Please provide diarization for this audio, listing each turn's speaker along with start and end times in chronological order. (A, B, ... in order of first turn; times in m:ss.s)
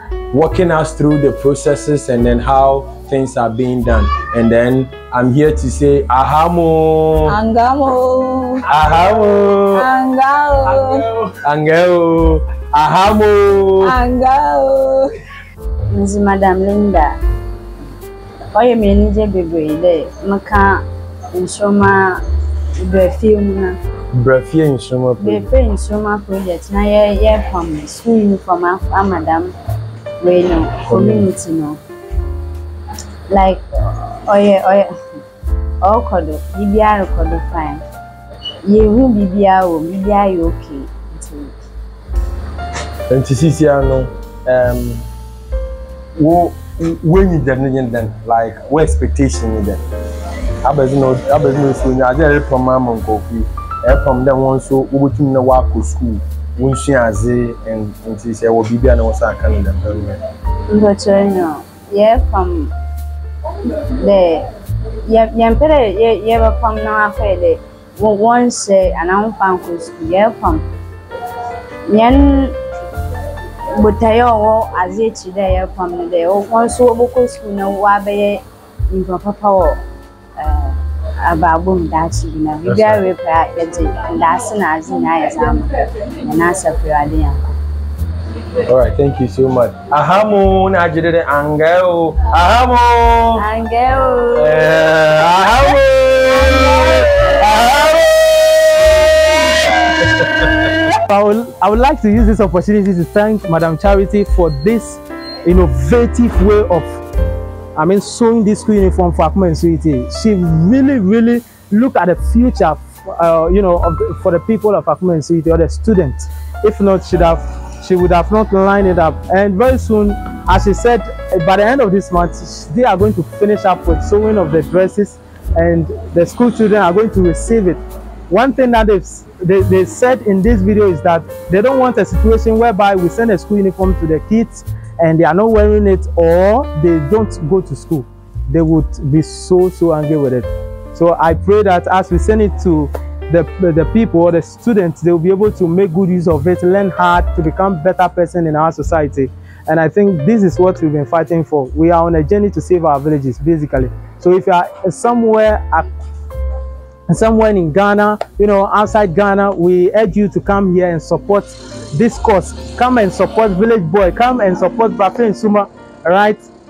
0:00.3-0:07.4 A
0:07.3-0:08.6 B
0:08.6-0:09.8 A
0:09.8-0:11.0 B
0:11.4-0:13.9 A
0:13.8-0:15.1 B
0:15.9-0:17.2 C
0:18.5-0:22.2 C
0:22.8-0:23.8 C
0:24.1-0:25.5 A
0:25.2-0:29.5 C
0:30.2-0:31.8 C
0:30.9-0:31.3 A
0:33.3-0:34.9 C
0:35.8-0:37.8 C
0:38.6-0:41.5 C
0:43.1-0:45.0 A
0:46.2-0:49.8 A
0:50.6-1:00.2 A
1:00.7-1:02.7 C
1:03.6-1:04.4 C
1:05.1-1:10.6 C
1:11.9-1:12.6 C
1:13.8-1:19.8 C
1:20.4-1:20.7 C
1:21.2-1:27.6 C
1:22.6-1:23.0 A
1:28.6-1:33.4 A
1:33.4-1:34.6 C
1:34.3-1:38.0 A
1:40.1-1:40.5 A
1:41.1-1:46.9 D
1:47.8-2:07.8 D
2:08.3-2:35.9 D
2:37.1-2:46.4 D